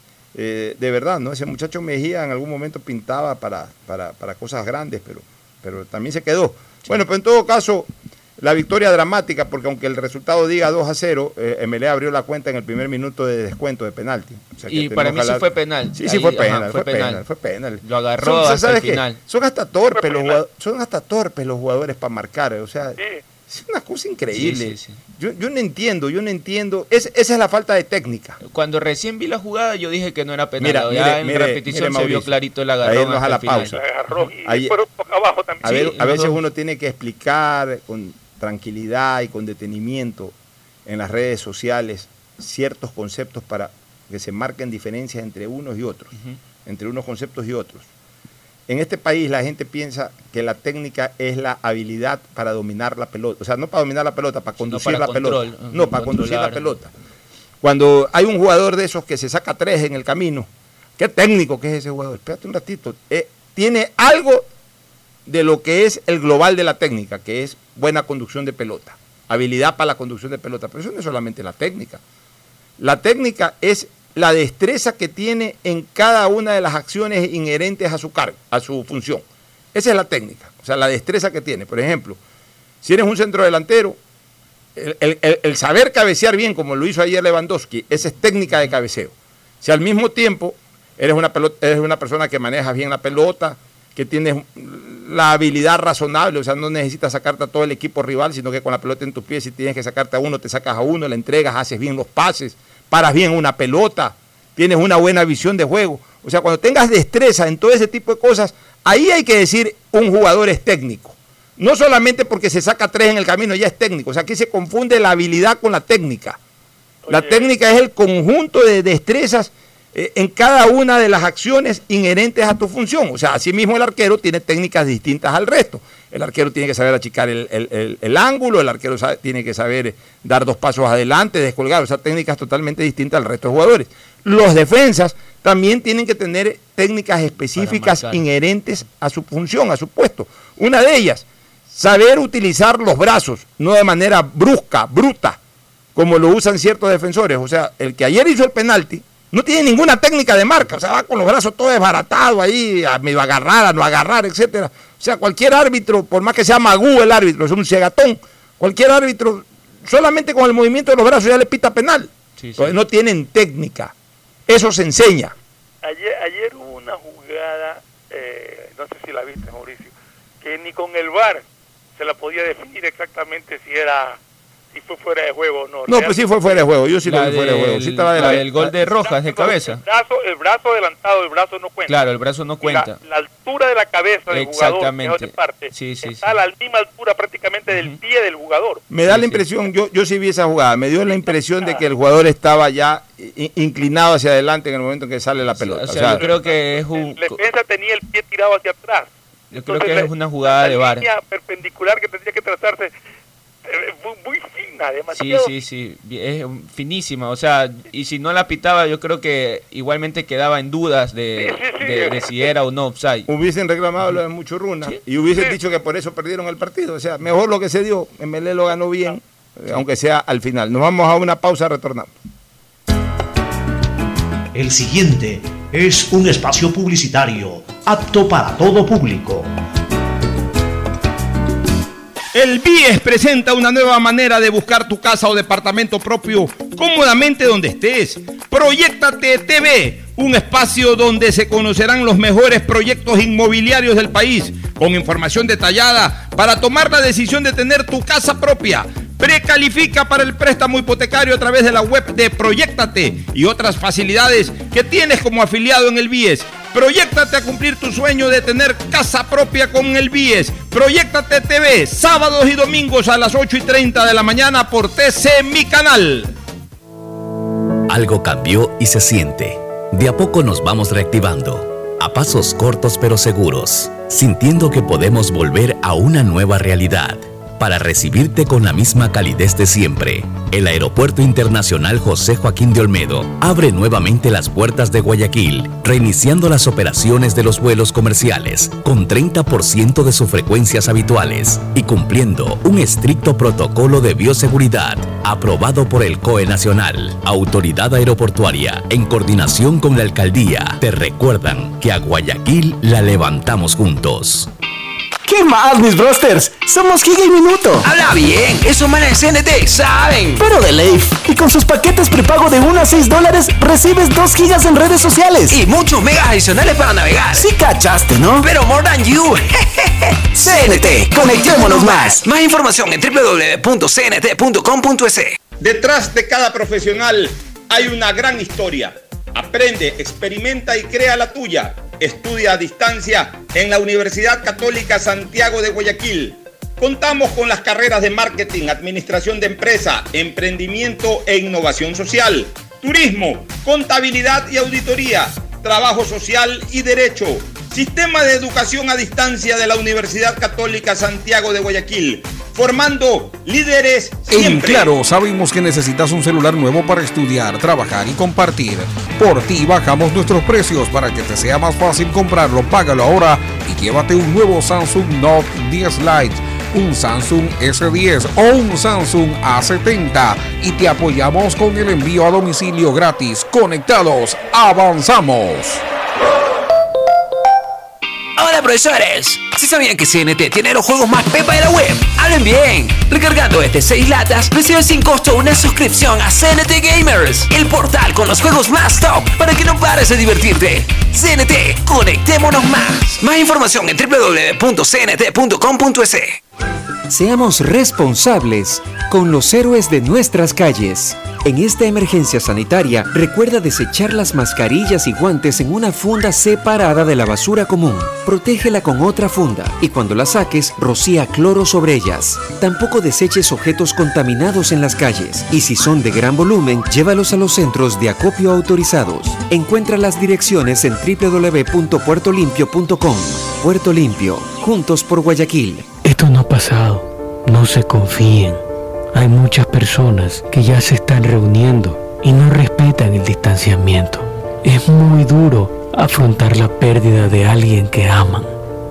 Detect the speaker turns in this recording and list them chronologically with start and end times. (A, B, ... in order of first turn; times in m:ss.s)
0:00.4-0:28.4 A
0:14.7-0:17.2 B
0:17.8-0:19.2 B
0:19.9-0:20.4 C
0:23.0-0:23.2 C
0:24.3-0:25.0 B
0:28.4-0:34.2 B
0:30.6-0:33.8 A
0:33.7-0:36.0 C
0:34.4-0:34.8 A
0:35.6-0:40.4 A
0:35.6-0:36.4 B
0:40.9-0:46.1 A
0:46.6-0:47.9 A
0:48.7-0:56.9 A
0:54.6-0:56.8 B
0:57.6-1:04.5 A
1:05.3-1:12.0 A
1:12.8-1:22.2 A
1:22.8-1:24.0 A
1:24.8-1:56.4 A
1:57.0-1:57.5 C
1:57.1-2:25.4 A
2:17.6-2:18.2 B
2:26.0-2:43.9 A
2:42.4-2:42.7 B
2:44.5-2:45.4 A
2:45.8-2:51.4 C
2:52.0-2:54.2 C
2:54.7-2:56.7 C
2:55.9-2:58.8 A
2:57.0-2:59.8 B
2:58.2-3:02.0 C
3:01.9-3:03.0 B
3:02.6-3:08.8 C
3:04.3-3:06.3 B
3:07.7-3:08.0 B
3:08.9-3:16.3 A
3:09.1-3:09.4 B
3:15.5-3:17.4 B
3:16.1-3:19.1 C
3:19.5-3:21.1 B
3:19.6-3:22.9 C
3:23.6-3:25.5 C
3:25.1-3:33.3 B
3:31.4-3:32.5 C
3:33.3-3:42.1 A
3:44.5-3:49.5 D
3:52.3-4:26.4 A
4:27.9-5:04.5 E
5:05.2-5:07.9 F
5:07.8-5:10.4 G
5:10.4-5:15.6 F
5:15.5-5:17.5 G
5:17.3-5:18.5 F
5:18.4-5:19.8 G
5:20.4-5:22.2 F
5:20.4-5:25.4 G
5:25.6-5:54.9 A
5:54.3-6:15.8 H
6:18.4-6:36.4 G
6:37.1-7:05.9 I
7:06.0-7:18.6 J